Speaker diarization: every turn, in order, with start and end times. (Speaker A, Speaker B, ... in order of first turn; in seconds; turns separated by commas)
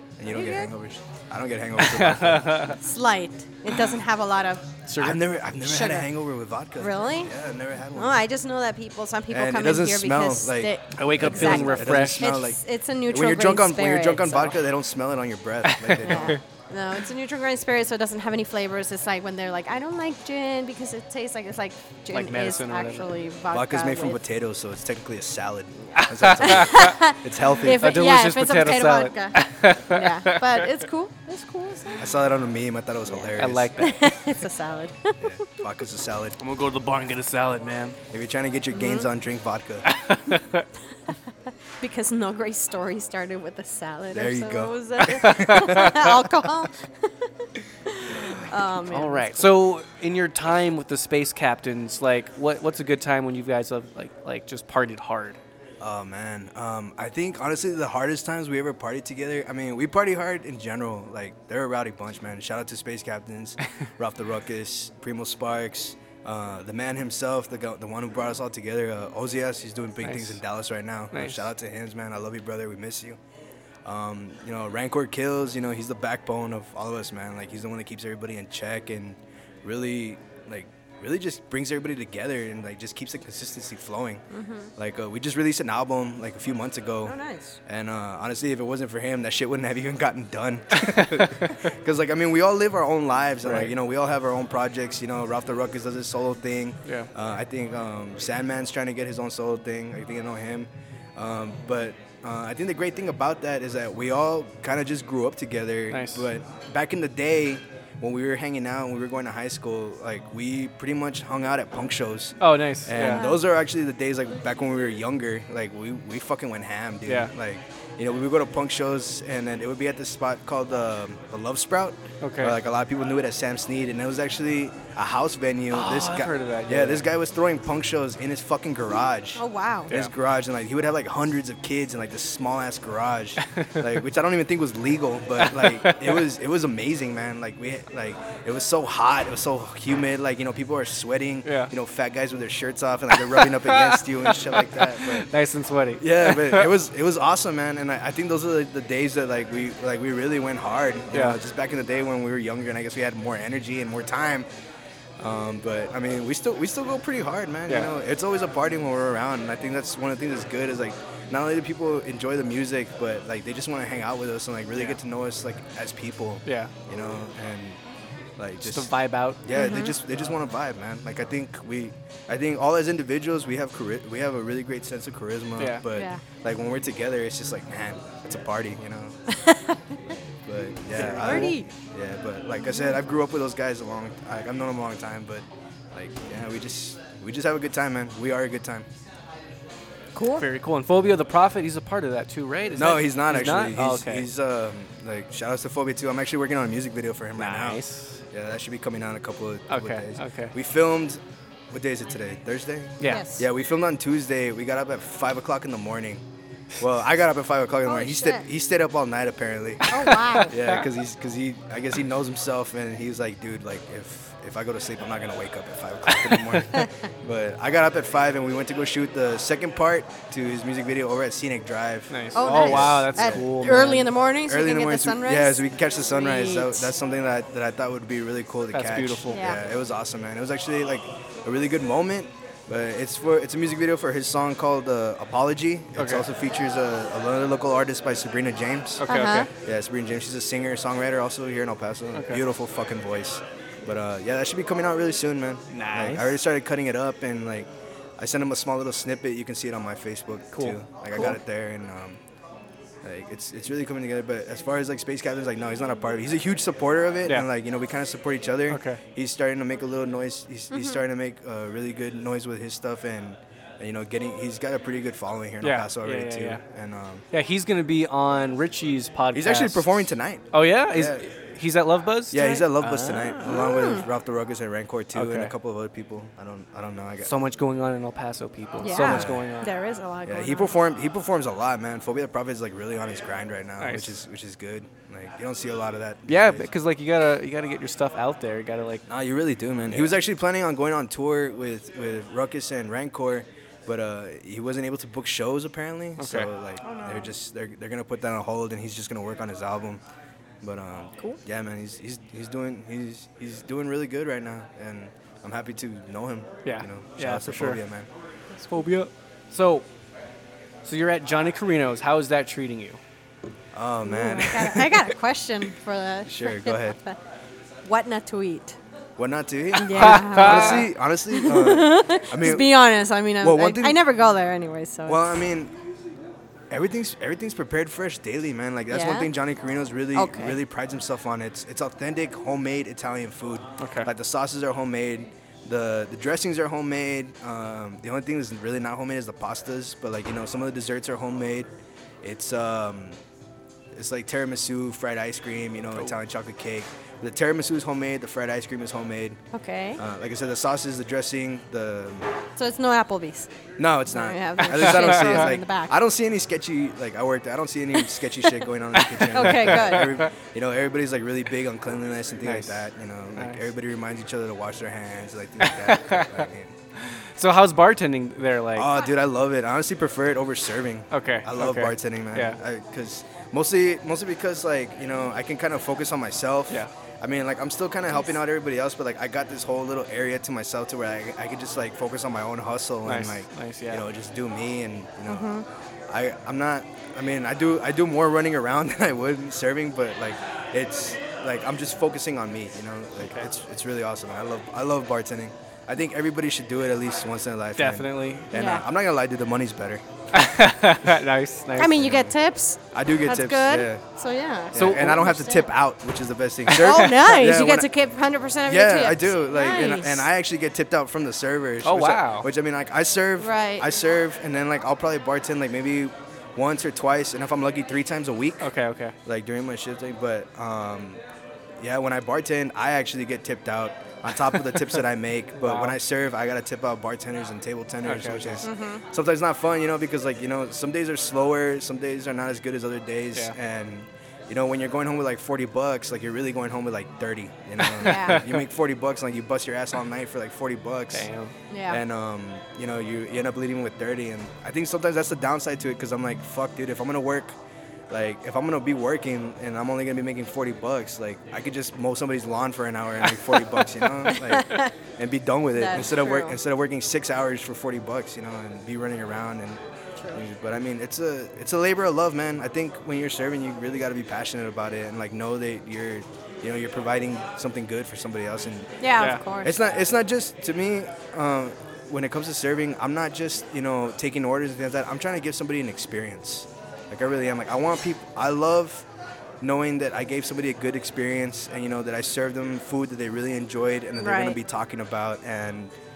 Speaker A: 0.2-2.8, Speaker B: 0.3-0.7, Speaker C: 1.8-2.8, Speaker B: 2.8-4.6, Speaker C: 4.9-5.2, Speaker A: 5.0-8.2, Speaker B: 5.6-6.1, Speaker B: 6.8-7.3, Speaker B: 8.0-14.6, Speaker A: 9.3-16.4, Speaker C: 11.0-12.2, Speaker C: 15.7-16.4, Speaker B: 16.0-24.2, Speaker C: 22.1-23.1, Speaker A: 23.5-27.9, Speaker C: 26.0-26.9, Speaker B: 26.4-32.1, Speaker C: 27.6-30.7, Speaker A: 32.0-33.7, Speaker C: 33.3-34.1, Speaker B: 33.8-35.5, Speaker A: 35.2-36.4, Speaker C: 36.4-38.0, Speaker A: 38.1-39.9, Speaker B: 38.7-39.1, Speaker C: 39.9-40.6, Speaker B: 41.8-49.5, Speaker A: 44.1-46.0, Speaker C: 45.2-45.7, Speaker C: 48.9-55.4, Speaker A: 55.8-73.2, Speaker C: 70.0-70.4, Speaker C: 71.1-71.4, Speaker A: 73.8-84.2, Speaker B: 84.3-84.7, Speaker A: 84.8-145.3, Speaker B: 87.0-87.6, Speaker C: 90.9-91.5, Speaker C: 93.4-93.7, Speaker C: 105.9-106.3, Speaker C: 112.4-113.2, Speaker B: 113.0-113.4, Speaker C: 122.2-122.6, Speaker C: 125.7-127.1, Speaker B: 129.4-129.9, Speaker C: 135.4-136.2, Speaker C: 141.4-141.7, Speaker C: 143.2-146.7, Speaker A: 146.0-154.5, Speaker C: 151.1-151.4, Speaker A: 155.2-167.8, Speaker C: 166.5-166.7, Speaker A: 168.4-168.9, Speaker C: 168.6-169.4, Speaker A: 169.4-179.2, Speaker B: 169.5-170.0, Speaker C: 175.6-175.8, Speaker B: 175.9-176.2, Speaker B: 179.3-179.8, Speaker A: 180.1-188.9, Speaker C: 180.9-181.6, Speaker B: 181.0-181.7, Speaker B: 190.2-190.5, Speaker C: 190.4-194.3, Speaker A: 192.8-206.2, Speaker C: 197.4-198.2, Speaker C: 199.7-200.5, Speaker C: 203.0-203.3, Speaker B: 203.1-203.5, Speaker A: 206.8-210.0, Speaker B: 207.8-208.5, Speaker B: 209.9-210.6, Speaker C: 210.0-210.8, Speaker A: 210.5-223.9, Speaker C: 216.3-216.6, Speaker C: 222.1-224.1, Speaker B: 222.3-226.9, Speaker A: 224.5-239.0, Speaker C: 228.7-229.4, Speaker B: 229.3-229.6, Speaker C: 236.0-236.2, Speaker C: 239.0-239.5, Speaker B: 239.1-239.5, Speaker A: 239.6-252.2, Speaker C: 242.2-242.4, Speaker C: 245.7-246.4, Speaker C: 250.5-251.4, Speaker A: 253.0-267.2, Speaker C: 258.7-259.0, Speaker B: 260.7-261.0, Speaker C: 265.6-266.6, Speaker C: 267.3-269.9, Speaker A: 269.3-271.2, Speaker C: 270.5-273.6, Speaker A: 272.3-277.3, Speaker B: 273.4-274.1, Speaker C: 275.1-275.5, Speaker C: 277.2-279.7, Speaker B: 278.8-280.8, Speaker A: 279.0-279.4, Speaker A: 280.3-286.7, Speaker C: 283.8-284.1, Speaker C: 286.3-289.1, Speaker A: 289.1-300.0, Speaker C: 296.2-296.5, Speaker B: 296.8-297.3, Speaker A: 300.6-308.1, Speaker C: 306.6-307.8, Speaker B: 308.6-308.9, Speaker C: 308.7-309.9, Speaker C: 310.9-313.0, Speaker A: 313.7-315.1, Speaker B: 314.1-317.2, Speaker A: 316.3-317.0, Speaker B: 317.9-318.8, Speaker A: 319.2-322.9, Speaker B: 319.8-325.4, Speaker C: 319.9-320.9, Speaker A: 323.4-324.0, Speaker A: 325.1-325.7, Speaker A: 326.7-341.7, Speaker B: 328.9-329.3, Speaker B: 330.1-330.6, Speaker C: 333.8-334.1, Speaker A: 342.2-343.2, Speaker A: 343.9-349.4, Speaker B: 349.5-350.0, Speaker A: 350.0-352.3, Speaker B: 352.6-353.5, Speaker A: 353.8-366.8, Speaker B: 354.1-355.9, Speaker C: 354.9-355.4, Speaker C: 359.1-360.2, Speaker B: 359.2-360.2, Speaker C: 362.4-362.8, Speaker C: 363.4-363.7, Speaker C: 365.6-366.5, Speaker C: 367.0-368.9, Speaker A: 368.8-385.5, Speaker C: 371.1-372.6, Speaker C: 383.1-384.0, Speaker B: 385.3-385.6, Speaker A: 386.1-400.0, Speaker C: 397.8-398.5, Speaker B: 398.5-398.8, Speaker C: 400.3-402.0, Speaker B: 401.8-405.7, Speaker A: 402.0-402.3, Speaker A: 402.9-404.0, Speaker A: 404.7-407.9, Speaker C: 404.8-405.4, Speaker C: 406.7-407.5, Speaker B: 406.8-410.3, Speaker A: 408.7-418.7, Speaker C: 411.8-412.5, Speaker B: 413.4-413.9, Speaker C: 418.6-419.1, Speaker A: 419.2-421.2, Speaker A: 421.8-441.3, Speaker C: 425.6-426.0, Speaker C: 428.0-428.7, Speaker B: 428.6-429.0, Speaker C: 437.8-438.6, Speaker B: 438.0-438.4, Speaker C: 441.1-441.5, Speaker B: 441.7-442.0, Speaker A: 441.9-447.6, Speaker A: 448.1-459.8, Speaker B: 454.4-454.9, Speaker B: 455.7-456.6, Speaker A: 460.3-468.9, Speaker B: 469.0-469.8, Speaker A: 469.6-479.1, Speaker A: 479.6-485.9, Speaker B: 484.2-484.6